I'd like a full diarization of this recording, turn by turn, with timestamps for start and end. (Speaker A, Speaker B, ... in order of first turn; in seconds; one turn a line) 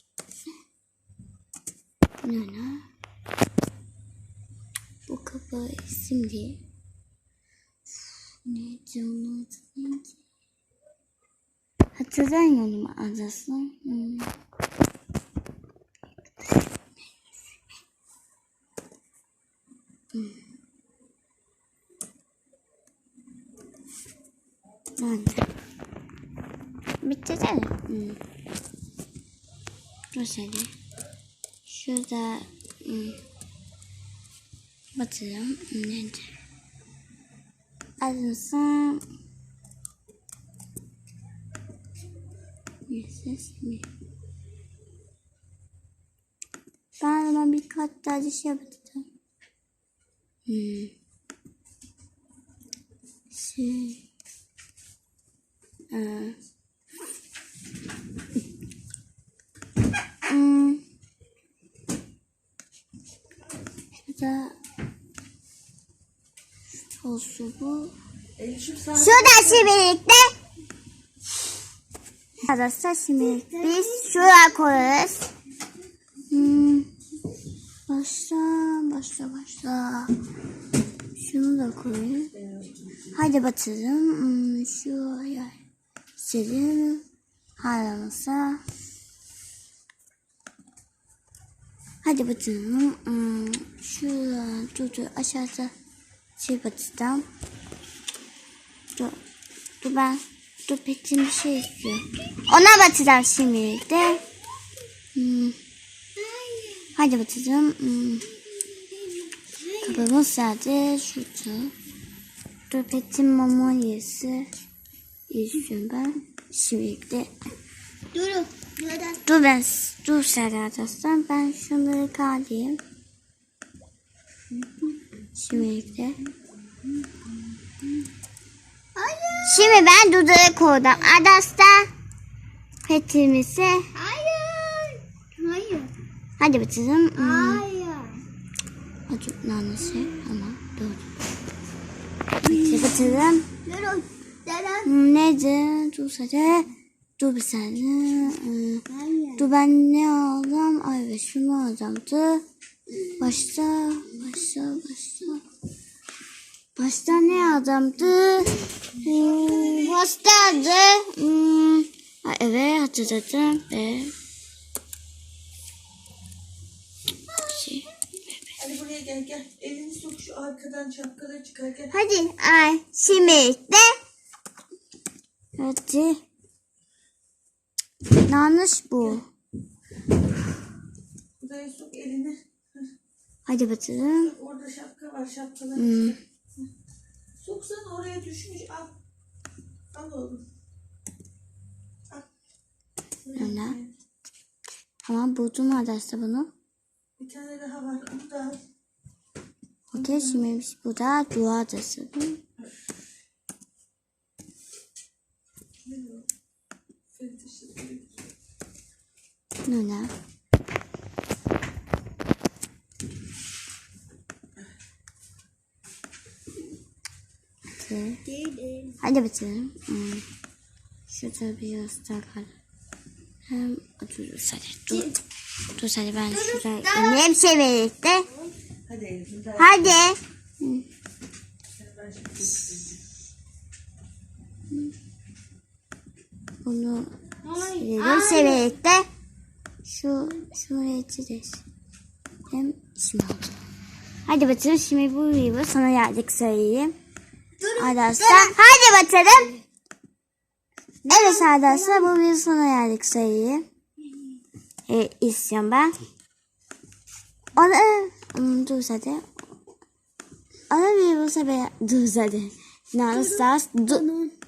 Speaker A: 2.2-2.8
Speaker A: 5.1-6.6
Speaker A: 8.4-10.2
Speaker A: 11.9-14.3
Speaker A: 20.1-20.4
Speaker A: 25.0-25.4
Speaker A: 27.0-28.2
Speaker A: 30.1-30.7
Speaker A: 31.6-33.2
Speaker A: 35.0-36.3
Speaker A: 38.0-39.0
Speaker A: 42.9-43.9
Speaker A: 47.0-49.0
Speaker A: 50.5-50.9
Speaker A: 53.3-54.0
Speaker A: 55.9-56.4
Speaker A: 60.2-60.8
Speaker A: 64.0-64.5
Speaker A: 67.0-67.9
Speaker B: 68.5-69.1
Speaker A: 68.9-70.3
Speaker A: 72.4-75.3
Speaker A: 76.3-76.9
Speaker A: 77.9-80.1
Speaker A: 81.2-82.3
Speaker A: 83.1-85.5
Speaker A: 86.2-87.0
Speaker A: 87.6-88.6
Speaker A: 92.0-95.7
Speaker A: 96.4-97.2
Speaker A: 99.8-104.2
Speaker A: 105.1-105.5
Speaker C: 106.2-106.8
Speaker A: 106.9-108.2
Speaker C: 109.3-110.0
Speaker A: 109.8-111.7
Speaker A: 112.7-114.5
Speaker A: 115.3-117.3
Speaker C: 118.1-119.2
Speaker A: 119.2-122.8
Speaker A: 125.3-126.2
Speaker C: 128.9-129.9
Speaker A: 129.4-131.9
Speaker A: 132.8-133.9
Speaker C: 133.9-135.9
Speaker A: 136.4-137.6
Speaker C: 137.2-138.2
Speaker A: 139.1-141.0
Speaker A: 142.4-143.5
Speaker C: 142.4-144.9
Speaker A: 144.8-148.8
Speaker C: 148.9-149.4
Speaker A: 149.4-152.4
Speaker A: 153.2-155.4
Speaker A: 156.8-164.1
Speaker A: 167.4-167.9
Speaker B: 168.6-171.9
Speaker A: 171.9-173.9
Speaker A: 175.6-176.2
Speaker A: 178.2-179.2
Speaker B: 181.4-182.4
Speaker A: 183.4-184.4
Speaker B: 184.4-185.7
Speaker A: 185.7-186.2
Speaker B: 187.4-188.9
Speaker B: 189.9-190.4
Speaker A: 193.3-193.8
Speaker A: 195.0-196.5
Speaker B: 197.2-198.6
Speaker A: 199.9-202.4
Speaker B: 205.8-206.2
Speaker B: 207.2-208.0
Speaker A: 209.7-210.1
Speaker A: 217.8-218.2
Speaker C: 218.3-218.9
Speaker A: 219.0-220.2
Speaker A: 221.1-222.5
Speaker A: 223.5-225.1
Speaker A: 225.7-228.3
Speaker C: 226.3-227.2
Speaker B: 228.9-229.6
Speaker A: 229.6-230.8
Speaker B: 232.1-232.4
Speaker A: 236.6-239.1
Speaker C: 237.5-238.7
Speaker A: 239.8-241.6
Speaker A: 242.5-243.6
Speaker A: 244.2-246.9
Speaker C: 247.6-248.6
Speaker A: 247.7-249.6
Speaker A: 251.1-253.6
Speaker C: 251.1-252.1
Speaker A: 254.9-255.9
Speaker A: 257.6-259.2
Speaker A: 260.7-264.0
Speaker C: 263.1-264.3